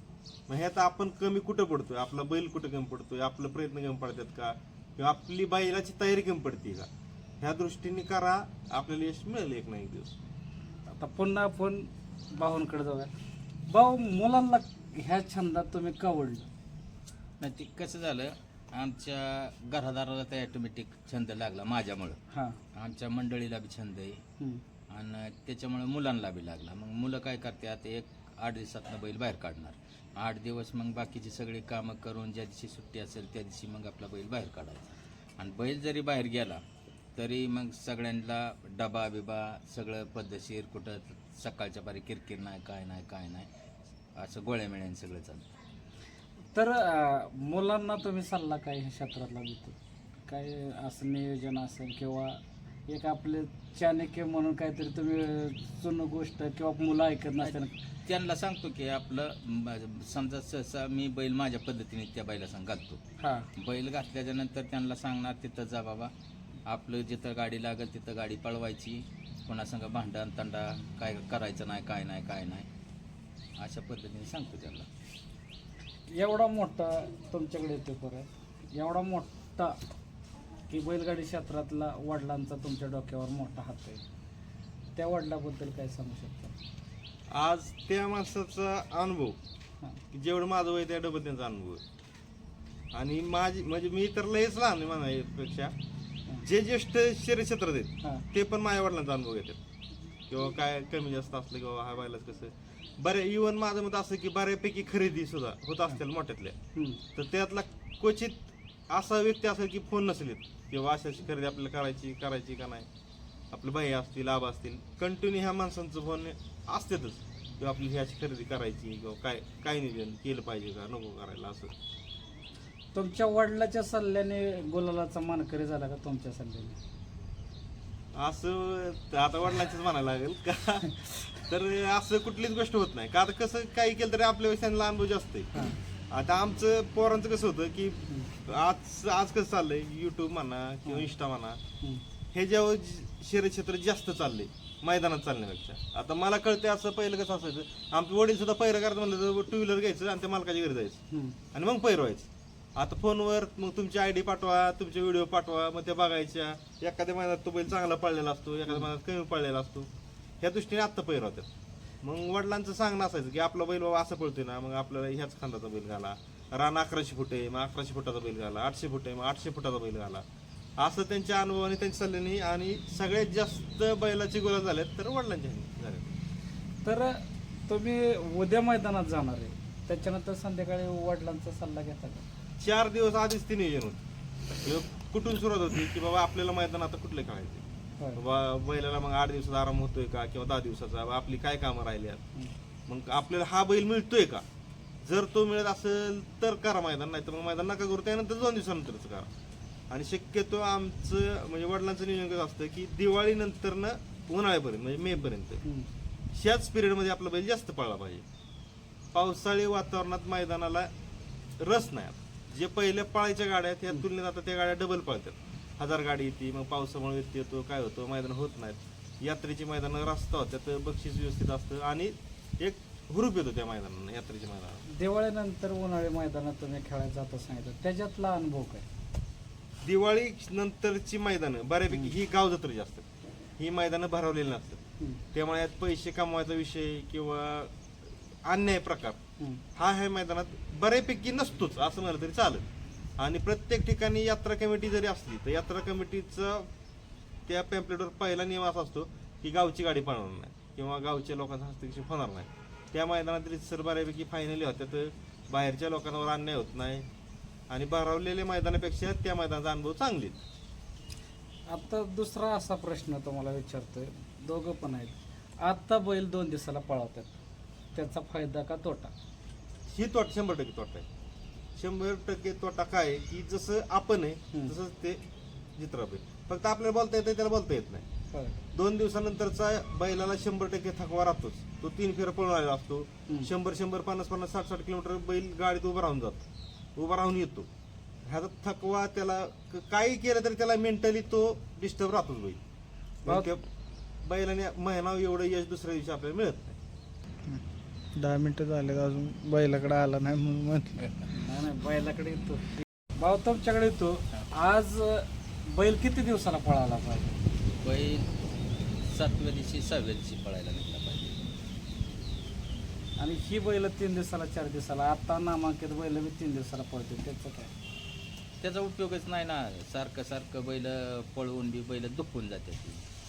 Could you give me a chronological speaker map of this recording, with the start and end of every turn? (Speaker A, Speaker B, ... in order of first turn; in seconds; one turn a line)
Speaker A: 0.5-6.9
Speaker A: 7.4-10.2
Speaker B: 10.9-13.1
Speaker B: 13.7-16.5
Speaker C: 17.4-22.2
Speaker B: 22.3-22.6
Speaker C: 22.8-24.2
Speaker C: 24.9-36.6
Speaker C: 37.2-43.5
Speaker C: 44.2-45.5
Speaker B: 46.5-57.8
Speaker C: 57.4-63.0
Speaker B: 63.2-63.5
Speaker C: 63.6-66.1
Speaker C: 66.7-72.7
Speaker C: 73.6-74.9
Speaker B: 76.1-79.8
Speaker B: 80.7-84.0
Speaker B: 85.0-86.6
Speaker A: 87.3-89.4
Speaker A: 90.1-91.8
Speaker A: 92.9-95.7
Speaker A: 96.4-99.6
Speaker A: 100.3-106.6
Speaker B: 106.8-107.0
Speaker A: 107.2-112.9
Speaker A: 113.5-121.7
Speaker B: 122.9-126.8
Speaker A: 128.1-135.5
Speaker A: 136.1-141.6
Speaker B: 140.9-141.1
Speaker A: 142.3-151.0
Speaker B: 151.1-151.4
Speaker A: 151.5-159.9
Speaker A: 160.4-161.5
Speaker A: 162.0-170.2
Speaker A: 170.8-176.2
Speaker B: 176.8-182.2
Speaker A: 182.6-184.0
Speaker A: 184.6-187.6
Speaker A: 188.2-192.2
Speaker A: 192.9-194.4
Speaker A: 195.0-199.3
Speaker A: 199.9-205.6
Speaker B: 205.6-205.9
Speaker A: 206.3-208.2
Speaker A: 209.1-210.9
Speaker A: 211.6-224.8
Speaker B: 224.9-228.9
Speaker A: 229.8-233.1
Speaker A: 233.6-234.8
Speaker A: 235.3-239.2
Speaker A: 239.8-242.7
Speaker A: 243.2-246.7
Speaker A: 247.5-257.1
Speaker A: 257.7-260.4
Speaker B: 261.7-267.4
Speaker B: 267.9-269.1
Speaker A: 269.9-271.1
Speaker A: 271.8-275.2
Speaker A: 275.8-278.1
Speaker B: 278.3-278.6
Speaker A: 278.7-287.7
Speaker A: 288.3-292.6
Speaker A: 293.2-293.6
Speaker B: 293.3-293.5
Speaker A: 294.2-296.8
Speaker D: 298.1-301.0
Speaker C: 301.0-301.3
Speaker B: 301.3-307.4
Speaker C: 307.8-308.3
Speaker C: 309.1-311.4
Speaker B: 313.2-317.7
Speaker C: 318.6-323.1